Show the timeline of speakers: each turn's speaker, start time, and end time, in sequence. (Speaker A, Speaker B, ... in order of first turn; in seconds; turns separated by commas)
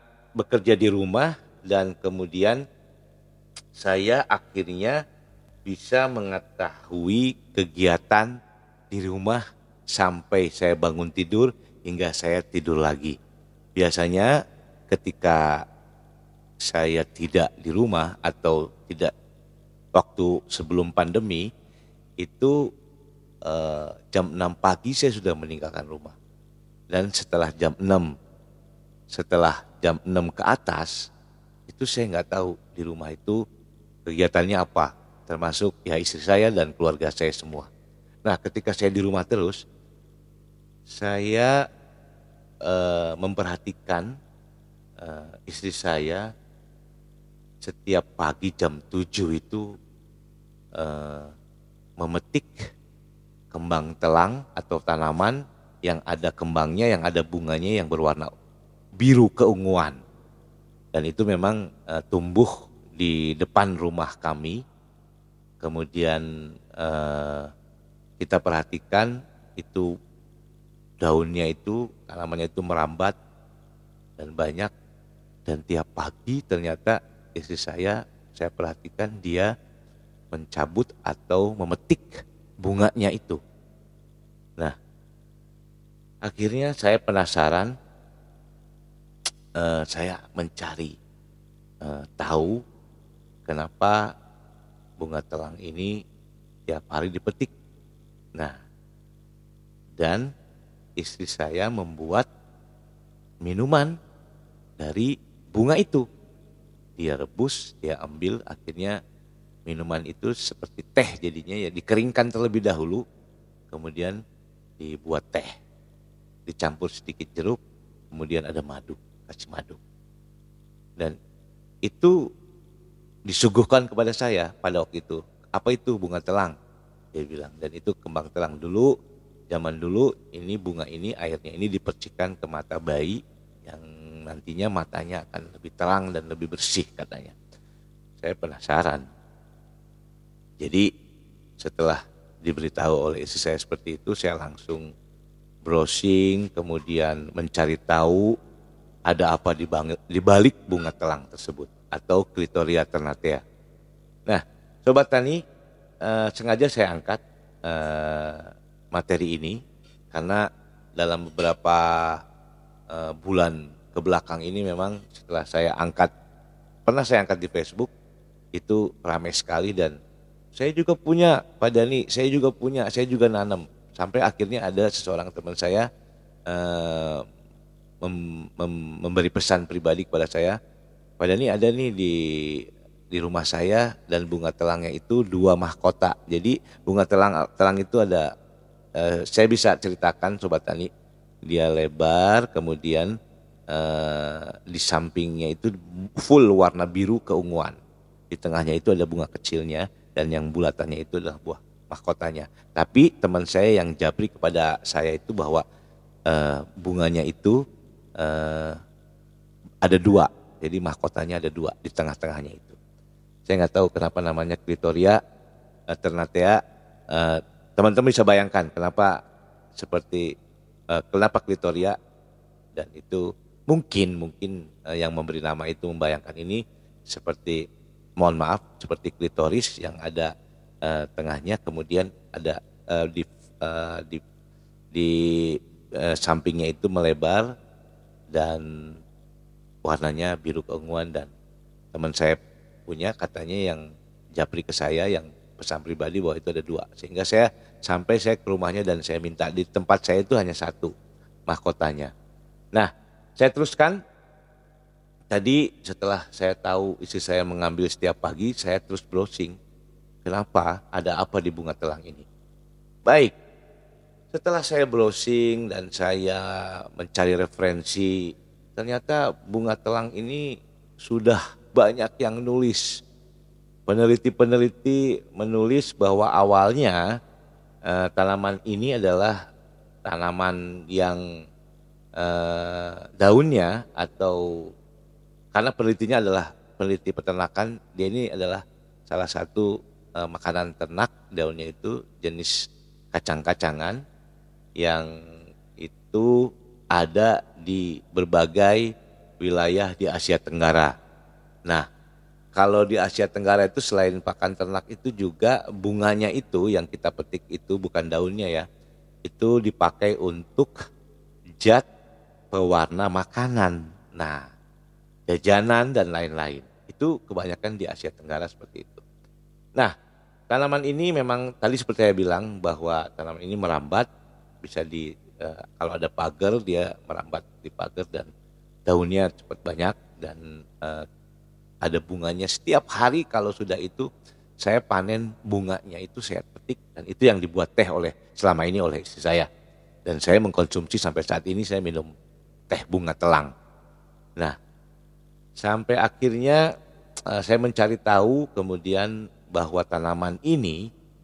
Speaker A: 0.4-2.6, Speaker A: 3.8-5.0, Speaker A: 5.7-8.3, Speaker A: 8.9-13.2, Speaker A: 13.8-14.3, Speaker A: 14.9-15.5, Speaker A: 16.6-19.1, Speaker A: 19.9-21.5, Speaker A: 22.2-22.6, Speaker A: 23.4-26.1, Speaker A: 26.9-28.1, Speaker A: 29.1-31.1, Speaker A: 31.7-33.4, Speaker A: 34.1-37.7, Speaker A: 38.2-39.6, Speaker A: 40.9-41.5, Speaker A: 42.6-44.1, Speaker A: 45.0-46.2, Speaker A: 47.6-49.7, Speaker A: 50.8-51.3, Speaker A: 52.0-52.6, Speaker A: 53.5-58.3, Speaker A: 59.0-60.0, Speaker A: 60.9-64.6, Speaker A: 65.6-66.2, Speaker A: 66.8-67.5, Speaker A: 68.2-69.9, Speaker A: 71.0-73.2, Speaker A: 74.2-74.7, Speaker A: 75.5-79.5, Speaker A: 80.3-83.4, Speaker A: 86.3-87.7, Speaker A: 89.6-91.0, Speaker A: 91.8-92.6, Speaker A: 93.5-94.0, Speaker A: 95.0-95.9, Speaker A: 96.7-97.5, Speaker A: 100.0-100.2, Speaker A: 101.0-102.3, Speaker A: 103.4-103.9, Speaker A: 104.8-106.0, Speaker A: 107.0-109.0, Speaker A: 109.7-113.0, Speaker A: 113.7-114.2, Speaker A: 114.8-115.5, Speaker A: 116.5-117.6, Speaker A: 118.1-119.8, Speaker A: 121.9-122.2, Speaker A: 123.3-126.5, Speaker A: 127.1-128.9, Speaker A: 129.5-137.4, Speaker A: 138.2-139.1, Speaker A: 140.6-140.9, Speaker A: 141.6-144.9, Speaker A: 145.7-148.3, Speaker A: 149.1-153.4, Speaker A: 154.3-155.4, Speaker A: 156.0-159.6, Speaker A: 160.1-160.4, Speaker A: 161.0-162.2, Speaker A: 162.9-166.1, Speaker A: 166.9-167.9, Speaker A: 168.6-169.9, Speaker A: 170.6-175.8, Speaker A: 176.5-177.2, Speaker A: 178.0-180.6, Speaker A: 181.2-188.2, Speaker A: 189.0-190.9, Speaker A: 191.5-193.1, Speaker A: 193.7-197.8, Speaker A: 198.3-205.6, Speaker A: 206.3-207.6, Speaker A: 208.2-208.8, Speaker A: 209.8-212.8, Speaker A: 213.5-215.2, Speaker A: 215.9-216.6, Speaker A: 217.1-219.1, Speaker A: 219.8-220.3, Speaker A: 220.9-221.9, Speaker A: 222.8-227.6, Speaker A: 228.2-230.3, Speaker A: 230.8-234.2, Speaker A: 234.9-237.5, Speaker A: 238.3-238.7, Speaker A: 239.8-241.3, Speaker A: 241.9-243.8, Speaker A: 244.4-250.9, Speaker A: 251.5-252.1, Speaker A: 252.8-254.0, Speaker A: 255.3-259.6, Speaker A: 260.2-262.3, Speaker A: 263.1-263.3, Speaker A: 264.3-268.2, Speaker A: 268.8-270.4, Speaker A: 271.0-272.9, Speaker A: 273.9-277.0, Speaker A: 277.9-279.4, Speaker A: 280.1-281.2, Speaker A: 282.2-284.7, Speaker A: 285.5-289.7, Speaker A: 290.2-292.5, Speaker A: 293.1-294.0, Speaker A: 294.8-295.1, Speaker A: 295.8-296.3, Speaker A: 296.9-298.9, Speaker A: 299.4-300.9, Speaker A: 302.6-308.6, Speaker A: 309.2-310.7, Speaker A: 311.6-311.9, Speaker A: 312.5-314.4, Speaker A: 315.3-319.0, Speaker A: 320.5-324.1, Speaker A: 324.6-328.3, Speaker A: 328.9-331.1, Speaker A: 331.8-334.1, Speaker A: 334.6-339.5, Speaker A: 340.1-342.1, Speaker A: 342.7-343.5, Speaker A: 345.6-346.6, Speaker A: 347.3-350.8